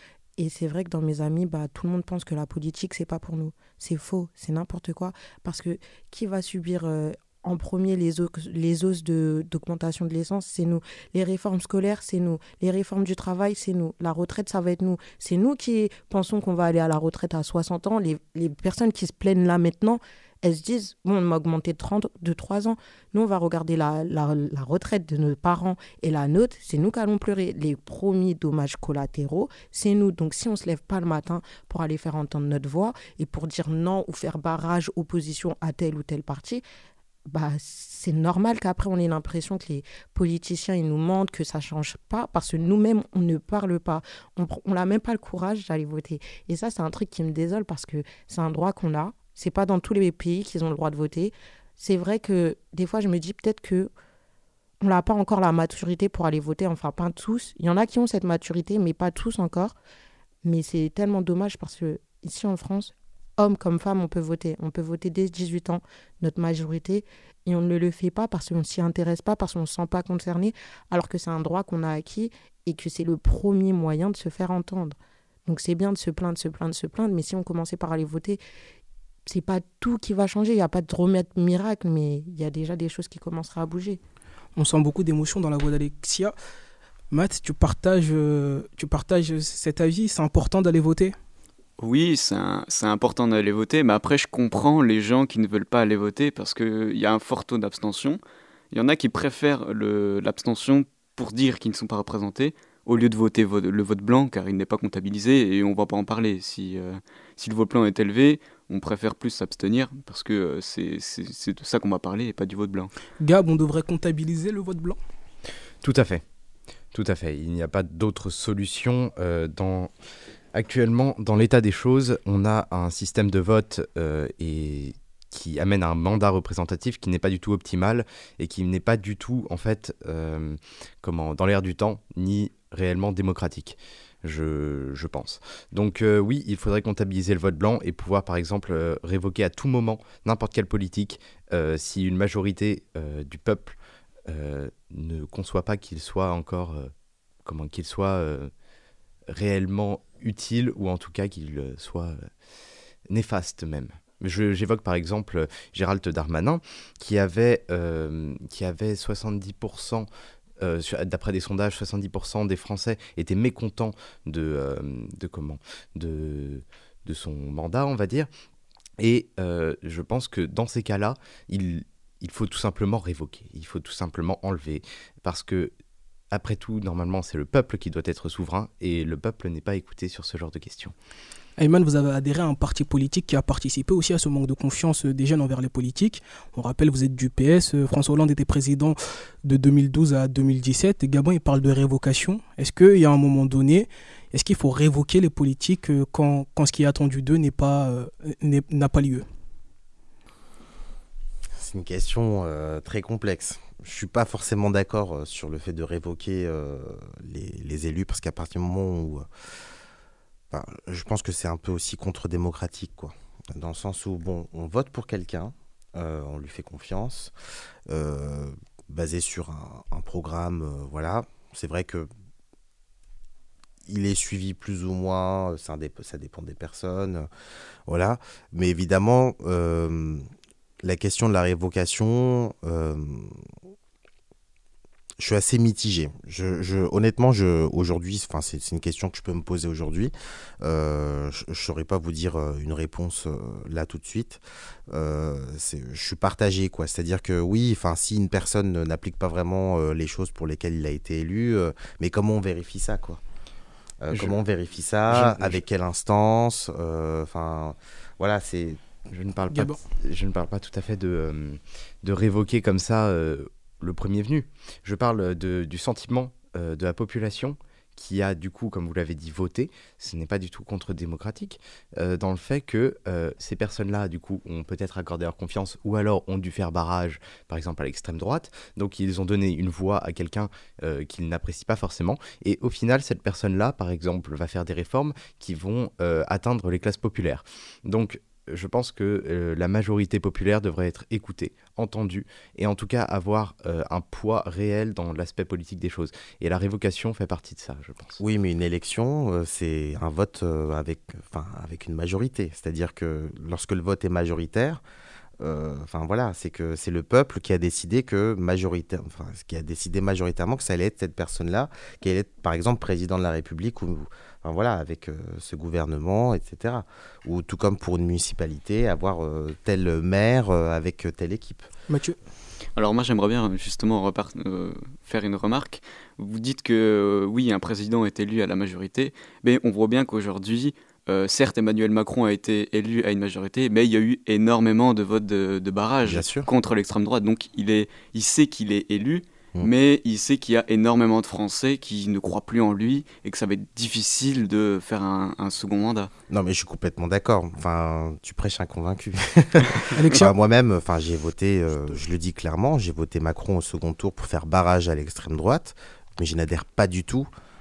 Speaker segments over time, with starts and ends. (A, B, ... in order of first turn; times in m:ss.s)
0:00.4-0:36.6 A
0:37.3-0:53.9 A
0:54.8-0:59.7 A
1:00.4-1:18.4 A
1:19.2-1:24.0 A
1:24.6-1:26.3 B
1:27.1-1:31.2 B
1:31.8-1:38.2 C
1:38.7-1:52.9 C
1:53.2-1:55.0 B
1:55.8-1:56.2 D
1:56.9-1:59.9 D
2:00.5-2:26.9 D
2:27.4-2:28.5 D
2:29.3-2:32.3 D
2:33.1-2:40.1 D
2:40.6-2:48.3 D
2:49.0-2:55.7 D
2:56.3-3:00.9 D
3:01.6-3:19.2 B
3:21.6-3:29.2 E
3:30.5-3:37.3 E
3:37.9-3:42.1 E
3:43.8-3:47.3 E
3:47.9-3:50.3 E
3:50.8-3:53.4 E
3:55.2-4:13.2 E
4:14.0-4:18.8 E
4:15.1-4:15.6 D
4:19.1-4:58.2 D
4:19.5-4:19.8 B
4:58.2-5:04.8 E
5:05.4-5:21.7 E
5:21.9-5:22.2 B
5:22.8-5:46.1 C
5:36.0-5:36.5 E
5:46.3-5:57.3 E
5:49.9-5:50.3 B